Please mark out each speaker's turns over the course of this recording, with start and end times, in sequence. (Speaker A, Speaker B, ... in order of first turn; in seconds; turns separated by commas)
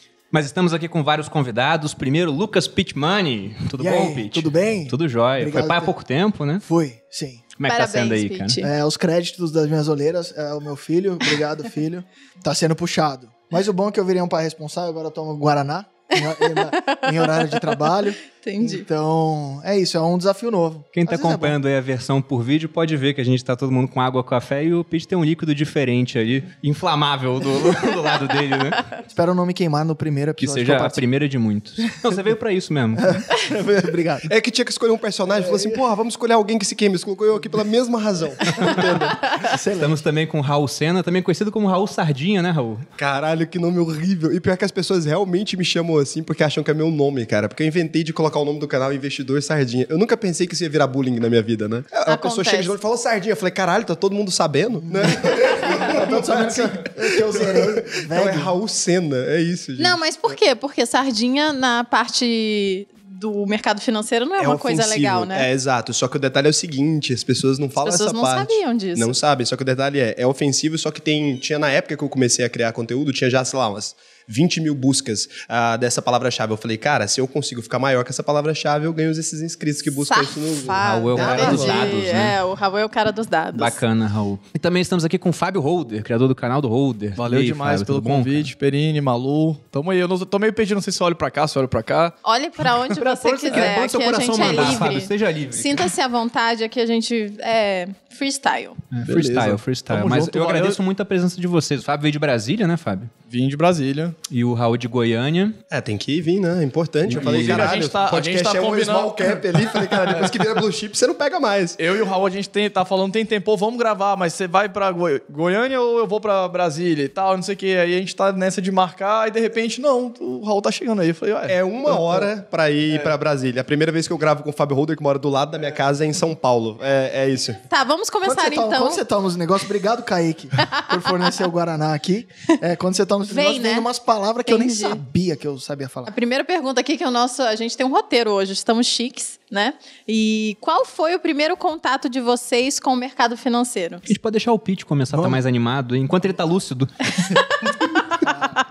Speaker A: 0.3-6.6, Speaker B: 3.8-5.9, Speaker B: 6.7-7.5, Speaker A: 7.6-8.6, Speaker C: 7.7-8.7, Speaker B: 8.6-21.6, Speaker C: 16.2-18.9, Speaker A: 20.9-28.9, Speaker B: 29.1-31.0, Speaker A: 30.4-33.2, Speaker B: 33.0-34.3, Speaker D: 33.4-39.5, Speaker B: 35.4-35.8, Speaker A: 38.5-38.8, Speaker B: 39.4-40.0, Speaker A: 39.8-42.9, Speaker D: 43.0-60.0, Speaker C: 52.1-52.7, Speaker B: 55.0-58.5, Speaker C: 59.8-65.5, Speaker D: 64.4-81.9, Speaker C: 67.8-69.2, Speaker C: 80.0-83.8, Speaker A: 80.8-82.4, Speaker A: 83.5-88.5, Speaker E: 87.2-92.2, Speaker C: 92.2-98.8, Speaker A: 93.0-95.9, Speaker E: 94.3-94.9, Speaker A: 98.9-103.1, Speaker E: 99.1-100.8, Speaker E: 103.3-104.2, Speaker A: 104.3-105.6, Speaker D: 105.7-111.8, Speaker A: 107.1-108.2, Speaker E: 107.1-110.3, Speaker E: 111.8-122.3, Speaker D: 121.5-127.6, Speaker C: 127.7-129.0, Speaker B: 128.2-136.1, Speaker C: 130.7-130.9, Speaker C: 133.3-133.9, Speaker C: 134.5-135.0, Speaker C: 136.1-144.1, Speaker A: 144.1-147.5, Speaker B: 145.1-145.4, Speaker C: 147.2-148.2, Speaker B: 148.2-148.5